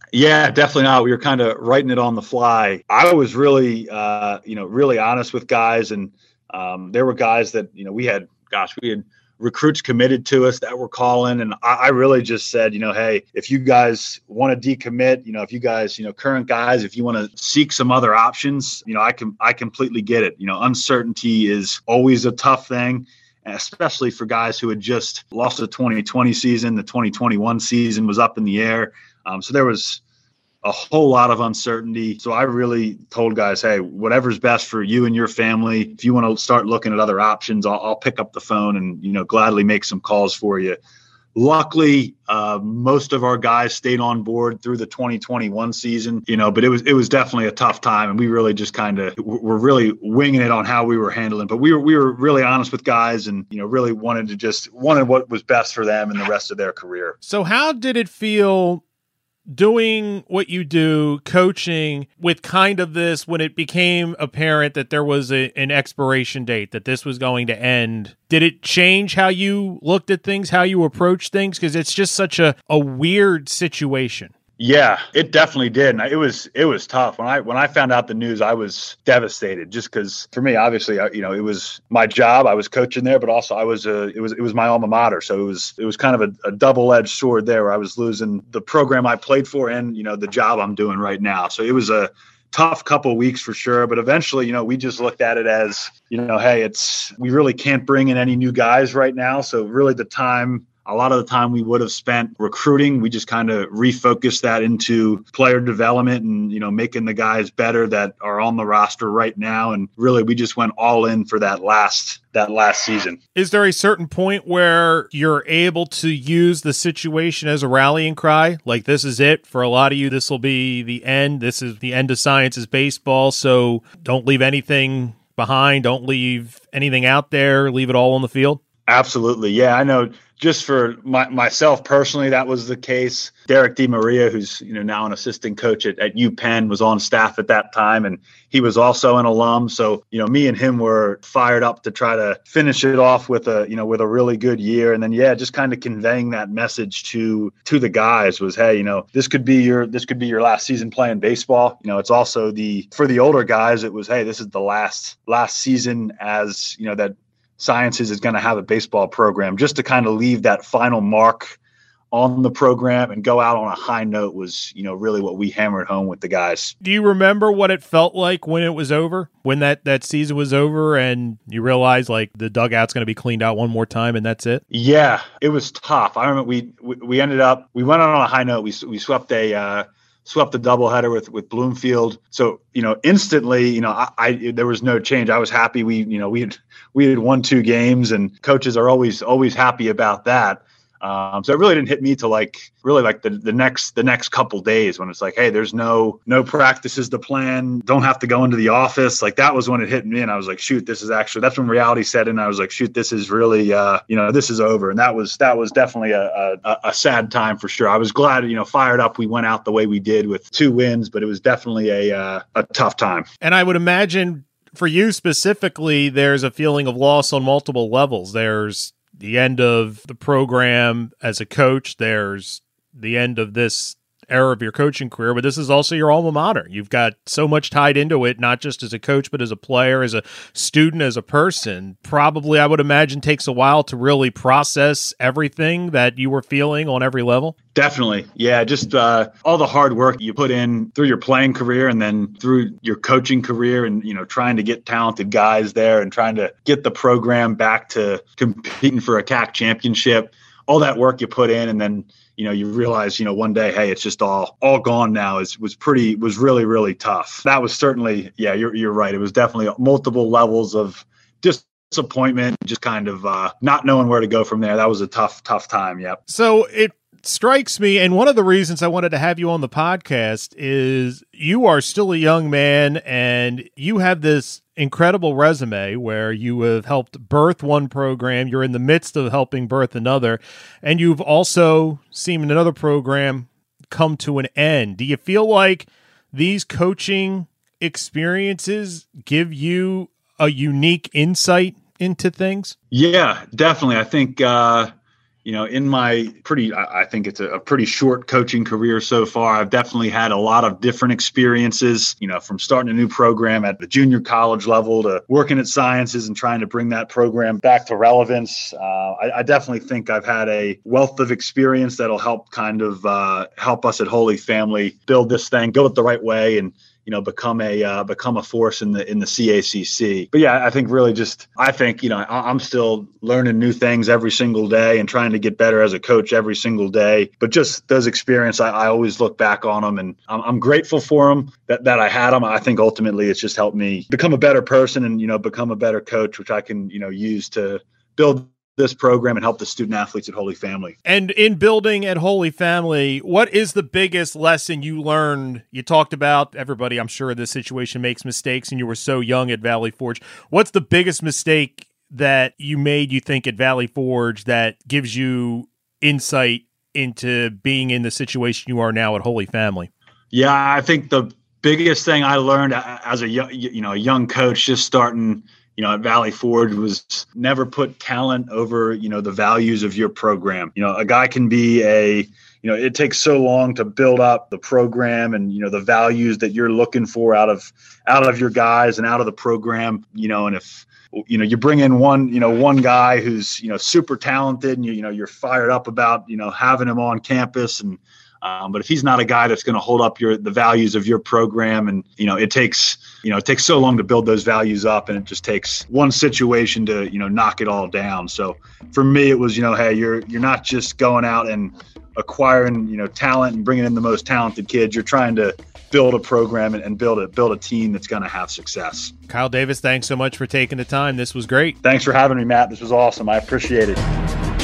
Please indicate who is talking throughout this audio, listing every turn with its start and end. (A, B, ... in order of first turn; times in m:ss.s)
0:00.1-0:30.0 A
0:30.6-0:40.8 A
0:41.3-0:57.2 A
0:57.2-0:58.8 B
0:59.5-1:14.3 B
1:14.6-1:53.2 A
1:53.3-2:08.6 B
2:08.9-2:41.6 A
2:42.1-2:46.7 A
2:46.8-2:54.6 B
2:54.7-3:33.3 A
3:33.4-3:57.5 B
3:57.7-4:26.2 A
4:26.3-4:52.7 B
4:52.9-4:54.9 A
4:55.4-5:41.0 A
5:41.0-5:59.9 B
6:00.3-6:49.1 A
6:49.3-6:51.8 B
6:51.8-6:54.0 A